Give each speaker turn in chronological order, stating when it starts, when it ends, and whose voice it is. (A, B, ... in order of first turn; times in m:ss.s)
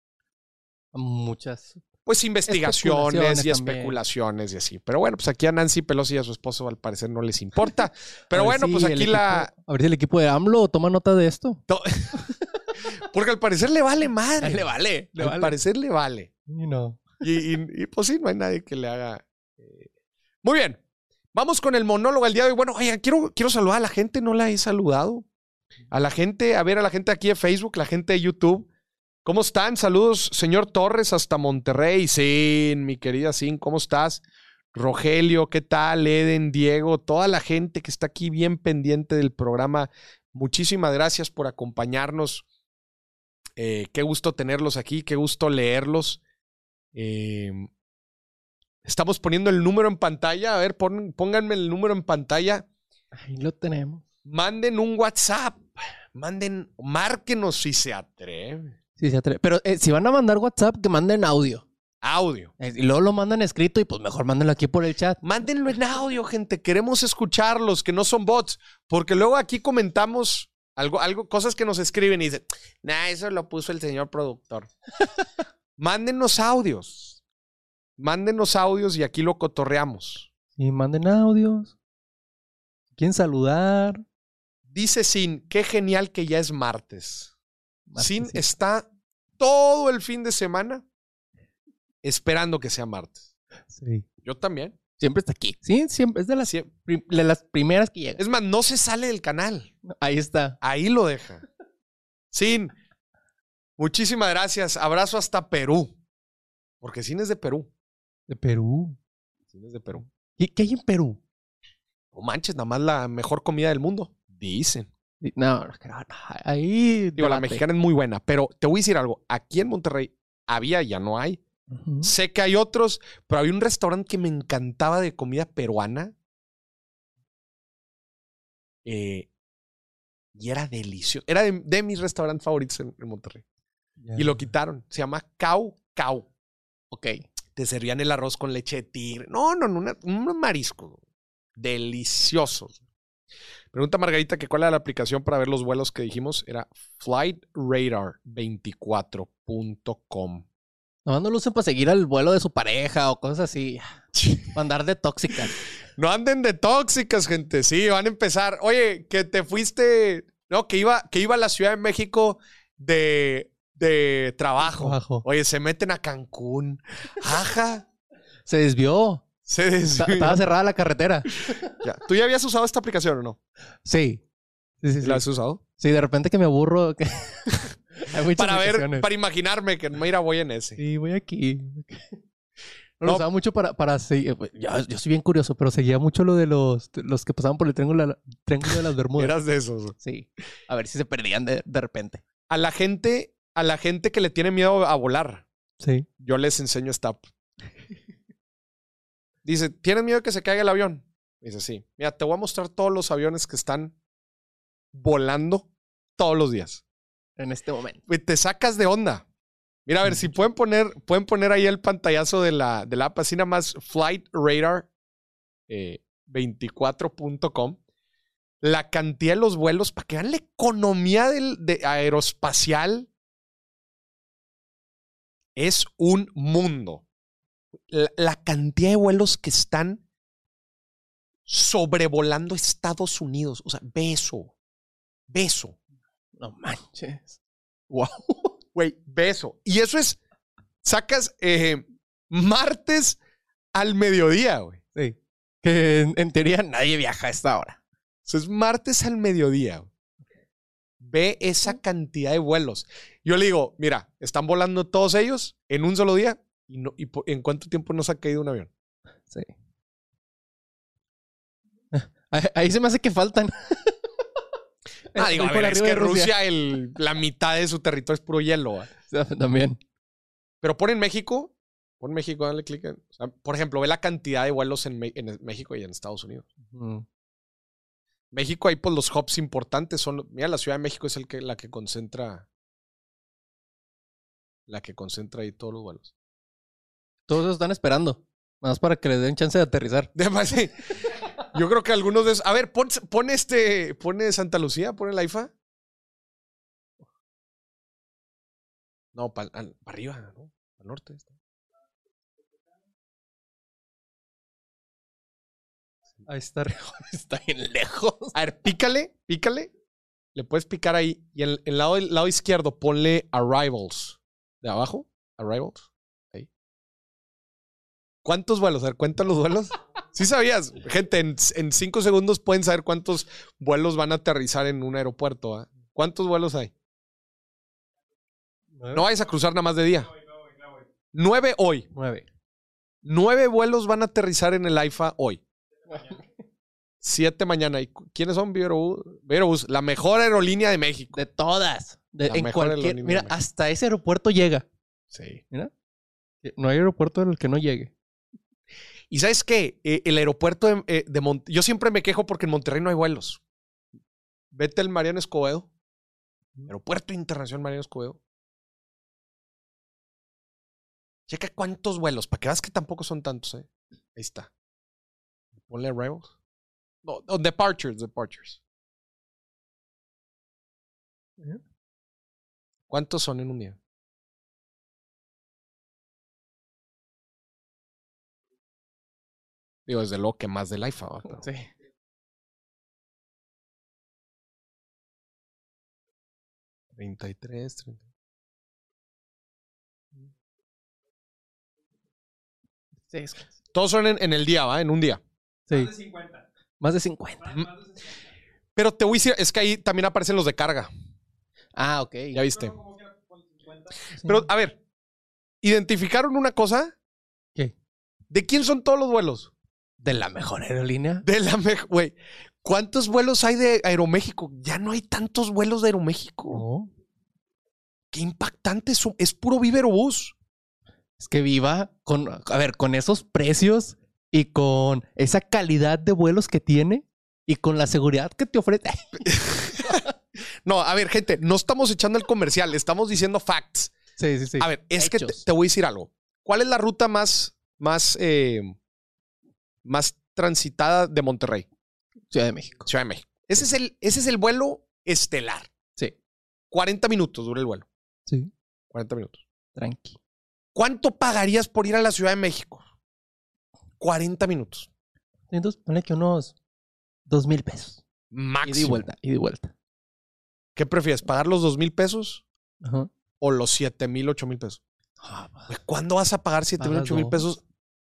0:00.9-0:01.8 A
0:02.0-0:09.5 B
0:02.5-0:04.0 A
0:08.3-0:12.4 A
0:11.7-0:12.2 B
0:12.9-0:16.3 B
0:14.4-0:15.6 A
0:16.5-0:17.2 A
0:17.2-0:19.9 B
0:20.4-0:20.8 B
0:21.3-0:25.2 B
0:25.9-0:28.7 B
0:29.2-0:34.2 B
0:34.7-0:42.4 B
0:43.6-0:46.2 B
0:46.9-0:47.7 B
0:48.8-0:52.6 B
0:53.1-0:54.0 A
0:54.2-0:58.8 B
0:59.0-1:01.6 A
1:02.0-1:02.5 B
1:02.6-1:05.2 A
1:05.2-1:14.7 B
1:15.8-1:17.2 B
1:18.0-1:20.3 B
1:20.6-1:21.7 A
1:23.0-1:24.0 A
1:24.7-1:27.3 B
1:27.9-1:28.4 A
1:28.0-1:28.9 B
1:29.4-1:30.8 B
1:32.0-1:33.2 B
1:33.7-1:34.0 A
1:34.2-1:34.7 B
1:35.0-1:38.2 A
1:38.2-1:39.7 B
1:39.8-1:40.6 A
1:40.6-1:41.4 B
1:42.3-1:42.7 B
1:43.8-1:45.9 B
1:46.8-1:47.7 B
1:48.3-1:49.0 A
1:49.5-1:50.0 B
1:50.4-1:51.2 A
1:52.1-1:54.9 B
1:55.2-1:57.6 A
1:57.2-2:01.4 B
2:01.7-2:02.1 A
2:02.0-2:06.1 B
2:08.8-2:09.3 B
2:10.3-2:13.4 B
2:14.0-2:14.4 A
2:14.2-2:16.3 B
2:16.9-2:17.2 A
2:17.6-2:21.0 B
2:21.6-2:22.8 B
2:23.7-2:30.4 B
2:31.0-2:33.9 A
2:34.1-2:34.5 B
2:34.5-2:35.5 A
2:36.0-2:47.8 B
2:44.7-2:45.2 A
2:48.4-2:49.2 A
2:49.4-2:50.4 B
2:49.9-2:51.7 A
2:51.8-2:53.4 B
2:53.8-2:54.2 A
2:54.8-2:59.1 A
2:55.0-2:55.6 B
2:58.3-3:00.8 B
3:00.8-3:02.2 A
3:03.0-3:09.4 A
3:09.2-3:10.0 B
3:10.0-3:12.2 A
3:12.5-3:15.4 B
3:15.8-3:16.1 A
3:16.2-3:17.2 B
3:19.4-3:23.9 B
3:24.9-3:26.8 B
3:27.4-3:28.0 A
3:28.1-3:29.2 B
3:29.8-3:34.9 B
3:30.0-3:30.3 A
3:35.7-3:37.8 B
3:38.6-3:43.1 B
3:45.6-3:47.0 B
3:47.9-3:50.0 B
3:51.5-3:54.5 B
3:55.3-3:55.8 B
3:56.4-3:57.4 A
3:57.9-3:58.5 A
3:58.7-4:00.2 B
4:00.8-4:03.2 B
4:03.7-4:04.8 B
4:04.9-4:07.8 A
4:08.3-4:09.9 B
4:11.0-4:18.7 B
4:21.9-4:24.2 A
4:25.1-4:26.4 A
4:25.1-4:28.9 B
4:29.0-4:29.8 A
4:30.6-4:36.5 B
4:36.6-4:37.0 A
4:38.3-4:42.4 B
4:44.7-4:46.1 B
4:47.3-4:50.1 A
4:50.1-4:50.8 B
4:51.5-4:55.5 B
4:59.1-5:01.3 B
5:06.2-5:08.3 A
5:08.3-5:09.7 B
5:10.3-5:16.5 B
5:18.2-5:26.7 B
5:28.7-5:29.0 A
5:28.9-5:30.1 B
5:31.1-5:31.9 B
5:31.9-5:32.2 A
5:33.0-5:35.4 B
5:37.0-5:41.2 B
5:41.1-5:44.6 A
5:42.2-5:43.4 B
5:45.1-5:45.4 B
5:46.4-5:47.9 A
5:49.1-5:53.4 B
5:54.5-5:55.7 B
5:56.7-5:58.2 B
6:01.3-6:04.5 B
6:05.6-6:06.3 B
6:07.0-6:08.6 B
6:12.9-6:13.8 B
6:19.9-6:21.4 B
6:21.2-6:21.7 A
6:27.0-6:28.0 B
6:33.1-6:33.5 A
6:33.7-6:35.2 B
6:35.7-6:37.6 A
6:37.5-6:37.8 B
6:38.8-6:40.9 B
6:41.7-6:42.4 A
6:42.3-6:42.8 B
6:44.1-6:44.4 A
6:44.2-6:44.8 B
6:45.6-6:46.9 B
6:48.3-6:49.5 B
6:50.0-6:51.2 A
6:51.2-6:56.6 B
6:56.5-6:56.9 A
6:58.1-7:00.3 B
7:01.2-7:09.3 A
7:09.3-7:10.0 B
7:10.6-7:13.9 B
7:14.2-7:15.4 A
7:14.6-7:18.7 B
7:19.8-7:21.6 B
7:22.3-7:22.9 A
7:22.8-7:25.7 B
7:26.7-7:27.9 B
7:28.3-7:28.5 A
7:28.9-7:29.4 B
7:29.7-7:30.2 A
7:30.7-7:32.8 B
7:34.0-7:34.9 B
7:35.5-7:36.5 A
7:37.2-7:38.0 A
7:38.3-7:39.1 B
7:38.6-7:39.7 A
7:40.8-7:42.4 B
7:42.8-7:43.1 A
7:43.4-7:44.8 B
7:45.2-7:45.7 A
7:45.7-7:47.6 B
7:46.8-7:47.4 A